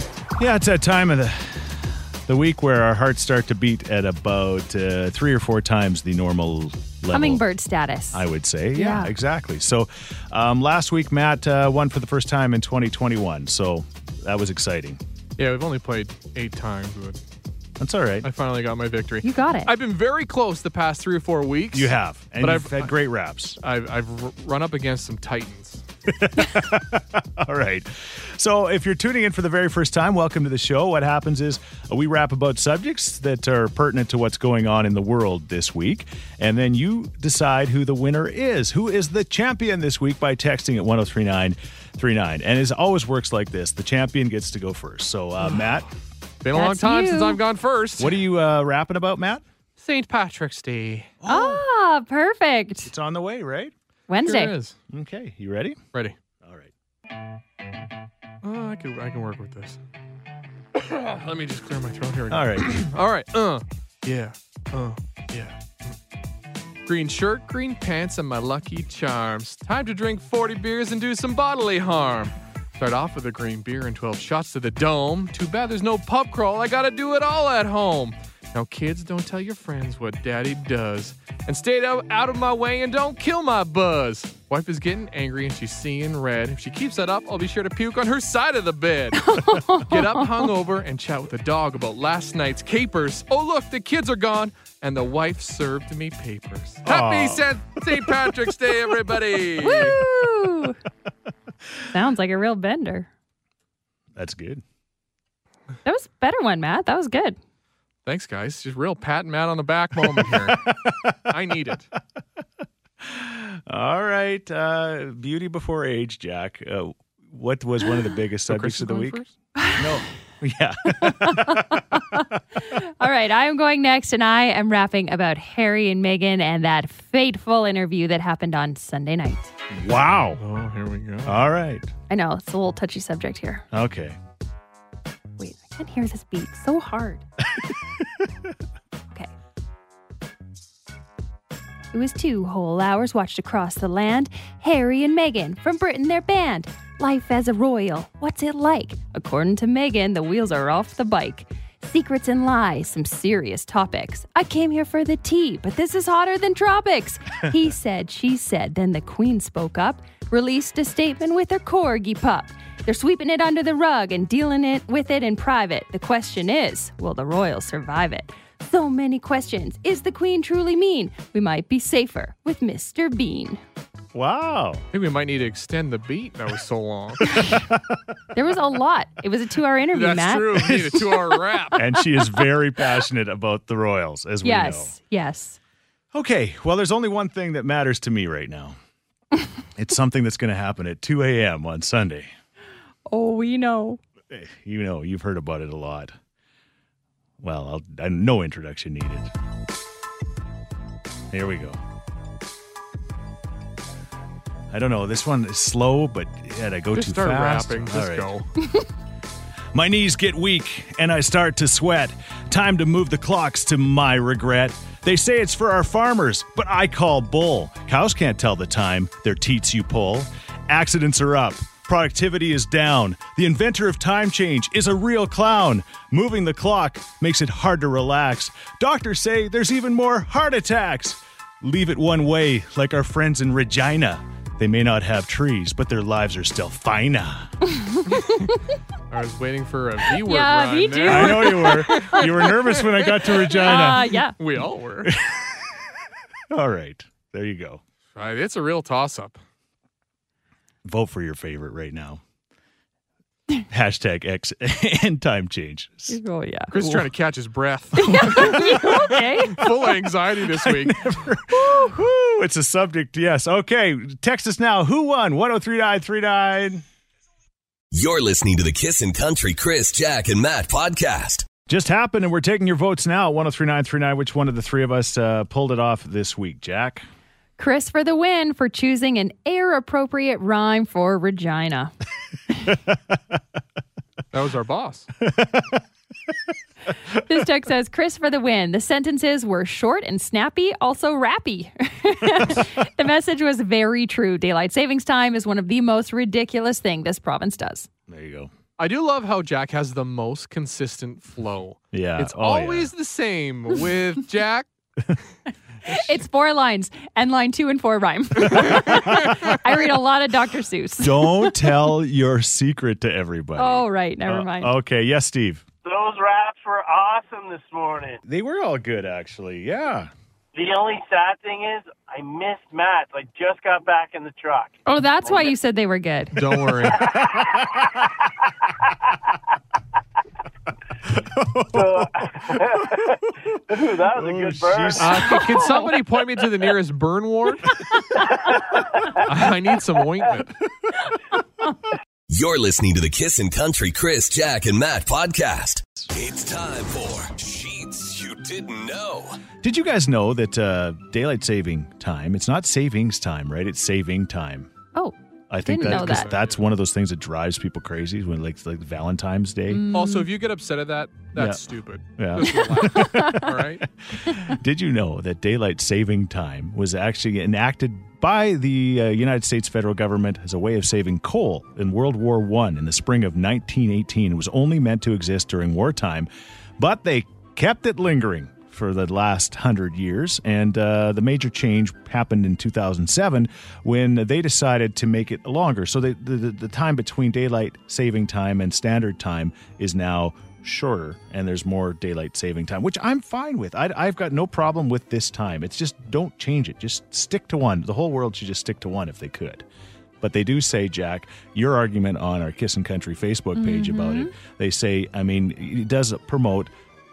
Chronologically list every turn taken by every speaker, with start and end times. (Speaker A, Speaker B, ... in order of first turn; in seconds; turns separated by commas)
Speaker A: 0.4-7.4, Speaker B: 7.1-9.1, Speaker A: 8.1-15.0, Speaker C: 15.4-17.2, Speaker A: 17.8-18.3, Speaker C: 18.2-22.9, Speaker B: 19.2-19.7, Speaker A: 21.7-23.6, Speaker C: 23.6-25.8, Speaker A: 26.1-45.9, Speaker C: 46.4-48.2, Speaker B: 46.5-47.4, Speaker A: 48.0-49.4, Speaker C: 49.8-51.1, Speaker A: 51.2-51.6, Speaker B: 51.2-52.9, Speaker A: 52.8-53.7, Speaker B: 54.1-54.5, Speaker C: 54.2-54.8, Speaker A: 54.9-55.8, Speaker A: 56.4-56.7, Speaker C: 58.4-59.8, Speaker C: 60.8-66.0, Speaker A: 62.3-62.9, Speaker C: 66.8-100.0, Speaker B: 89.2-90.2, Speaker A: 96.8-98.5, Speaker B: 99.6-100.8, Speaker B: 101.9-103.1, Speaker A: 104.1-104.6, Speaker B: 105.8-107.4, Speaker C: 108.0-110.7, Speaker A: 110.2-111.3, Speaker C: 111.3-111.9, Speaker A: 113.0-119.2, Speaker C: 118.5-119.3, Speaker B: 119.6-119.9, Speaker A: 119.8-122.2, Speaker B: 121.0-129.5, Speaker A: 129.7-130.4, Speaker C: 130.4-131.5, Speaker A: 131.2-131.9, Speaker B: 132.1-133.6, Speaker A: 133.7-134.2, Speaker B: 135.4-137.2, Speaker B: 141.9-173.6, Speaker A: 174.1-174.8, Speaker C: 174.9-177.2, Speaker A: 177.4-178.0, Speaker B: 178.3-180.7, Speaker C: 179.9-181.8, Speaker A: 180.6-184.9, Speaker B: 184.4-185.6, Speaker A: 186.1-188.8, Speaker A: 189.7-192.3, Speaker B: 193.1-194.0, Speaker A: 194.3-196.2, Speaker A: 197.4-199.3, Speaker A: 201.3-201.8, Speaker A: 204.7-208.3, Speaker C: 206.9-208.5, Speaker A: 209.7-237.5, Speaker B: 237.7-238.6, Speaker C: 239.1-245.1, Speaker B: 240.2-242.2, Speaker A: 241.0-244.0, Speaker B: 243.6-244.3, Speaker A: 245.0-245.8, Speaker A: 246.5-247.8, Speaker C: 248.1-249.4, Speaker A: 250.8-252.2, Speaker A: 253.7-256.2, Speaker B: 256.1-256.7, Speaker C: 256.7-261.0, Speaker A: 256.7-257.1, Speaker B: 258.0-259.7, Speaker A: 258.0-258.9, Speaker A: 260.4-266.8, Speaker B: 261.5-261.9, Speaker D: 267.9-271.5, Speaker A: 271.6-277.0, Speaker B: 277.6-281.9, Speaker A: 282.7-282.9, Speaker C: 284.3-285.1, Speaker A: 285.2-285.8, Speaker B: 287.1-297.9, Speaker A: 298.1-298.5, Speaker C: 298.8-304.7, Speaker A: 301.9-302.9, Speaker B: 305.9-311.8, Speaker A: 308.7-309.5, Speaker A: 311.0-315.6, Speaker B: 313.6-314.7, Speaker E: 315.8-318.2, Speaker A: 318.2-320.1, Speaker E: 320.5-325.5, Speaker B: 324.9-326.4, Speaker C: 326.3-327.1, Speaker E: 327.0-327.9, Speaker A: 327.0-328.0, Speaker A: 331.0-333.1, Speaker E: 331.7-335.5, Speaker A: 334.1-335.6, Speaker C: 335.0-337.7, Speaker C: 339.2-340.5, Speaker D: 342.3-349.4, Speaker A: 349.6-354.7, Speaker B: 354.9-356.3, Speaker A: 355.5-359.9, Speaker C: 355.8-356.6, Speaker B: 359.7-360.3, Speaker C: 359.9-363.9, Speaker A: 361.3-361.6, Speaker A: 362.2-399.6, Speaker B: 362.6-363.5, Speaker A: 400.2-406.7, Speaker B: 403.5-404.3